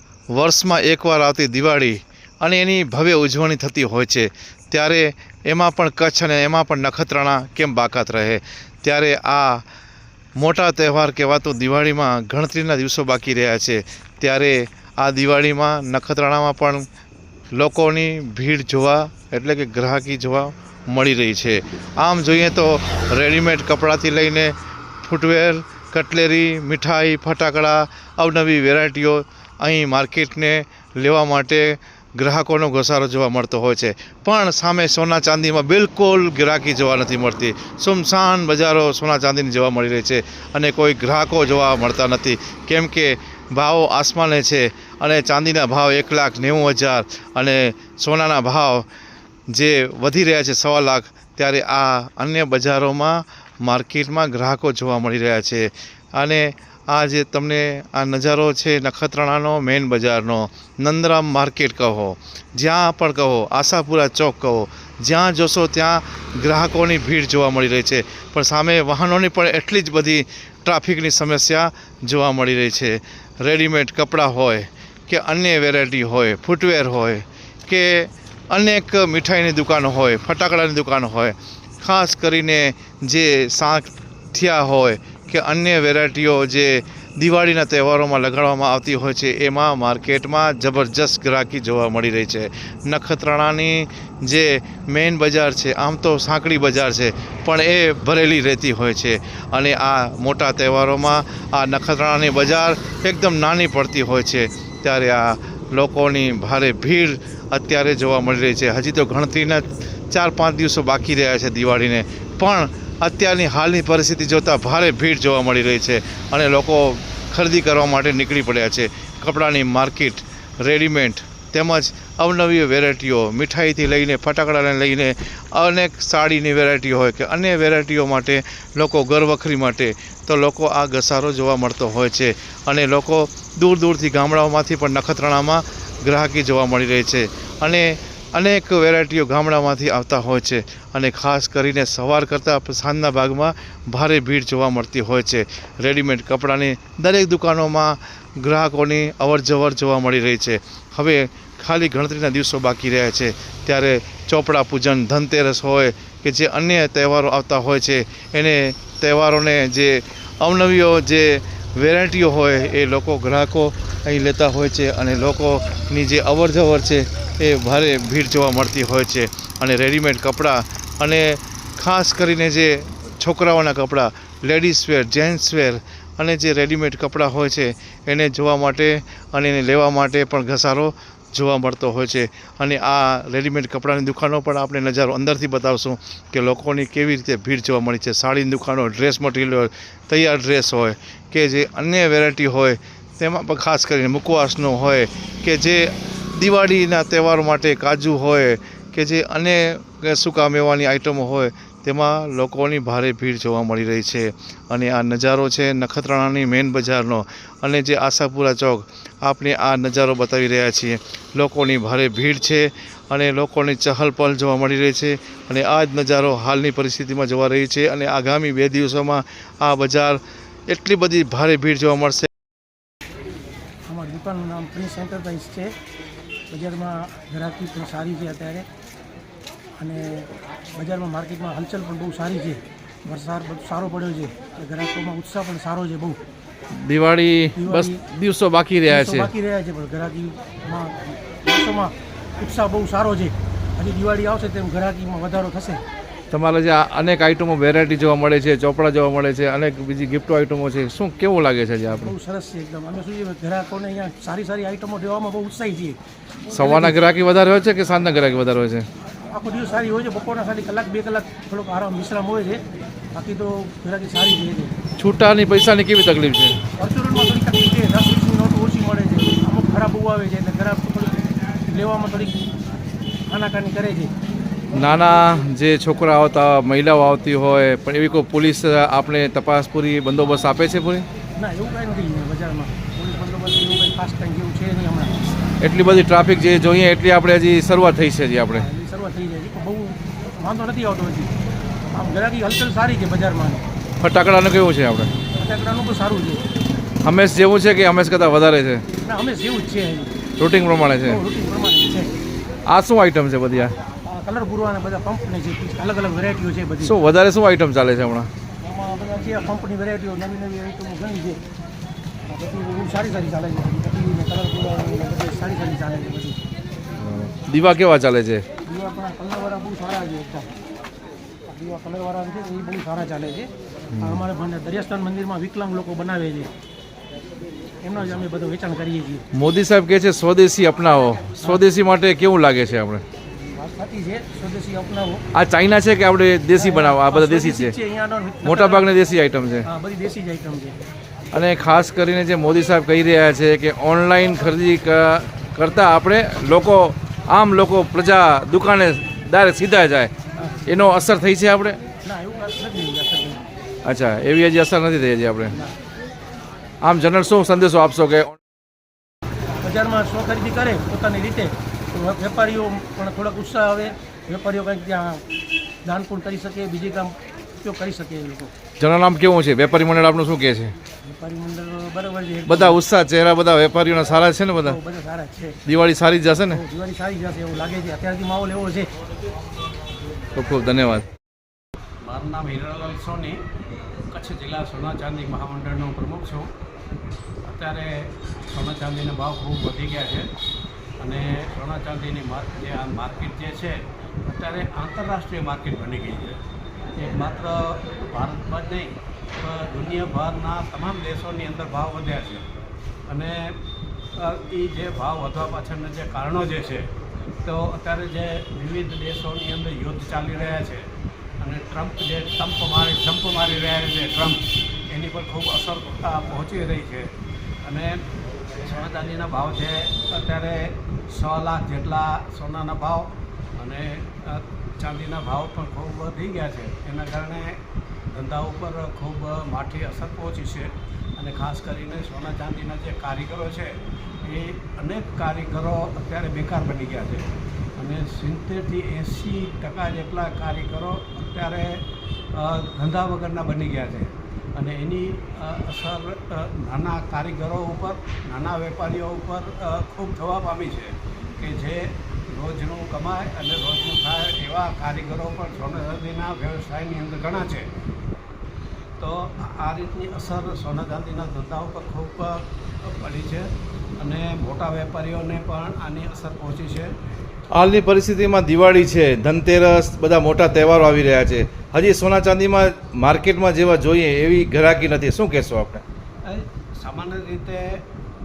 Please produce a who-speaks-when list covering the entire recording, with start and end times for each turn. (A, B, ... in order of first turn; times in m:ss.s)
0:00.3-0:09.6 A
0:10.4-0:16.8 A
0:17.6-0:24.5 A
0:25.0-0:48.9 A
0:49.5-3:42.3 A
3:43.9-3:45.7 B
3:46.5-3:48.6 B
3:49.8-3:56.2 B
3:56.7-3:59.3 A
3:57.6-3:58.0 B
3:58.8-4:05.8 B
4:06.3-4:12.1 A
4:11.9-4:16.0 B
4:16.5-4:18.8 A
4:16.5-4:17.0 B
4:19.2-4:22.6 B
4:23.1-4:24.8 B
4:25.0-4:26.6 A
4:26.8-4:32.4 B
4:33.3-4:34.1 B
4:34.7-4:41.0 A
4:41.4-4:45.2 B
4:45.6-4:48.6 A
4:48.5-4:51.3 B
4:51.9-4:53.6 B
4:54.0-4:55.1 A
4:55.4-4:56.4 B
4:57.0-4:58.8 A
4:59.0-5:00.1 B
5:00.4-5:01.2 A
5:01.0-5:02.1 B
5:02.7-5:03.7 A
5:04.1-5:06.9 B
5:06.8-5:08.3 A
5:08.6-5:11.4 B
5:12.3-5:16.4 B
5:17.0-5:18.4 A
5:18.7-5:20.5 B
5:21.5-5:26.5 B
5:23.9-5:24.2 A
5:27.8-5:29.2 B
5:29.3-5:33.0 A
5:33.5-5:35.2 B
5:35.3-5:37.7 A
5:36.6-5:38.9 B
5:38.4-5:39.6 A
5:39.6-5:40.8 B
5:41.3-5:50.1 A
5:50.6-5:51.8 A
5:52.0-5:53.4 B
5:53.8-5:55.5 A
5:56.8-5:58.4 A
5:59.6-6:05.2 B
6:05.8-6:08.5 B
6:08.8-6:10.7 A
6:11.0-6:12.8 B
6:12.5-6:14.8 A
6:14.6-6:15.6 B
6:15.6-6:16.6 A
6:16.5-6:18.9 B
6:20.3-6:21.0 A
6:22.0-6:23.4 C
6:24.1-6:26.5 C
6:27.4-6:30.3 C
6:31.0-6:36.4 C
6:37.0-6:42.5 C
6:43.1-6:43.6 C
6:44.2-6:46.9 C
6:47.4-6:50.8 C
6:51.4-6:57.1 C
6:57.6-6:58.0 C
6:58.6-7:07.6 C
7:08.1-7:37.7 C
7:39.0-7:46.9 C
7:47.5-7:55.8 A
7:56.2-7:57.8 C